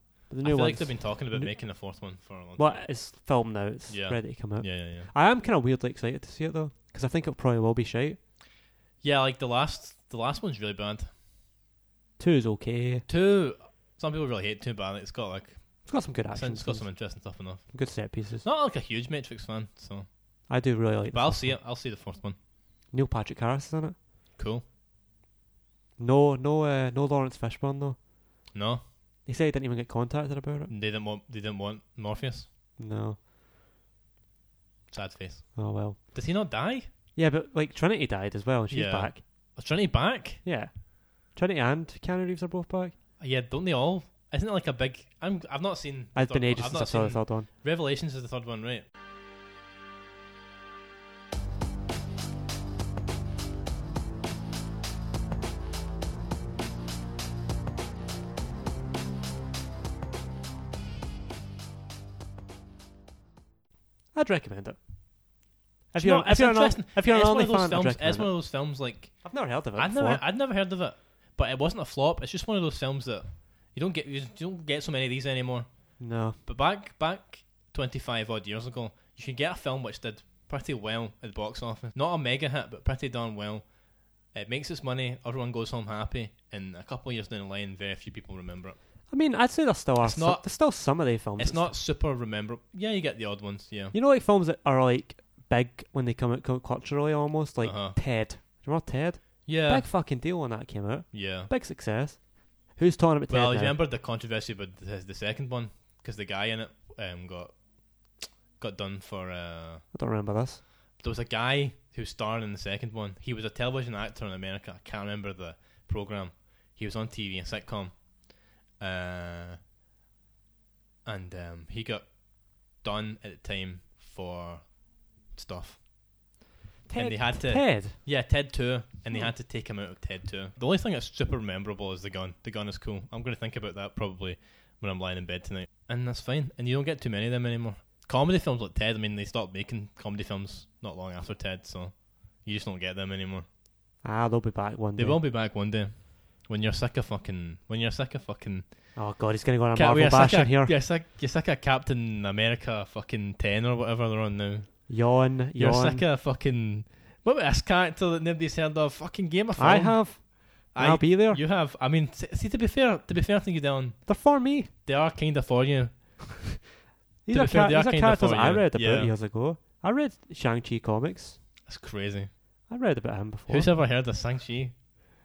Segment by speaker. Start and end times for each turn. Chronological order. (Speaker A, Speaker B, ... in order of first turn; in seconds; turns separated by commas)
Speaker A: 0.3-8.2, Speaker B: 0.4-2.9, Speaker B: 3.9-5.1, Speaker B: 9.0-11.1, Speaker A: 12.2-13.1, Speaker B: 13.1-20.1, Speaker A: 15.8-18.4, Speaker A: 20.5-21.6, Speaker B: 21.1-22.4, Speaker A: 22.9-23.9, Speaker B: 24.4-24.6, Speaker A: 26.0-28.0, Speaker B: 28.5-28.8, Speaker A: 29.2-30.7, Speaker B: 30.7-32.5, Speaker A: 32.8-33.2, Speaker B: 34.9-36.9, Speaker A: 35.5-36.0, Speaker A: 37.1-39.2, Speaker B: 38.7-40.4, Speaker A: 40.4-42.9, Speaker B: 43.2-48.8, Speaker A: 46.1-47.5, Speaker A: 64.1-64.8, Speaker A: 65.9-68.7, Speaker B: 66.0-88.8, Speaker A: 69.2-70.2, Speaker A: 76.0-76.4, Speaker A: 89.1-91.7, Speaker B: 90.0-93.9, Speaker A: 93.9-103.8, Speaker B: 97.6-98.0, Speaker B: 99.5-99.9, Speaker B: 101.1-101.5, Speaker B: 103.3-109.8, Speaker A: 109.9-110.6, Speaker B: 111.0-119.6, Speaker B: 121.0-125.8, Speaker A: 126.9-128.0, Speaker B: 126.9-143.5, Speaker A: 144.0-145.2, Speaker B: 144.9-149.1, Speaker A: 148.9-150.7, Speaker B: 149.7-155.0, Speaker A: 154.9-156.0, Speaker B: 155.5-166.6, Speaker A: 159.6-161.4, Speaker A: 164.1-164.7, Speaker A: 167.2-171.4, Speaker B: 167.3-169.2, Speaker B: 171.6-172.3, Speaker A: 172.7-173.7, Speaker B: 173.5-174.8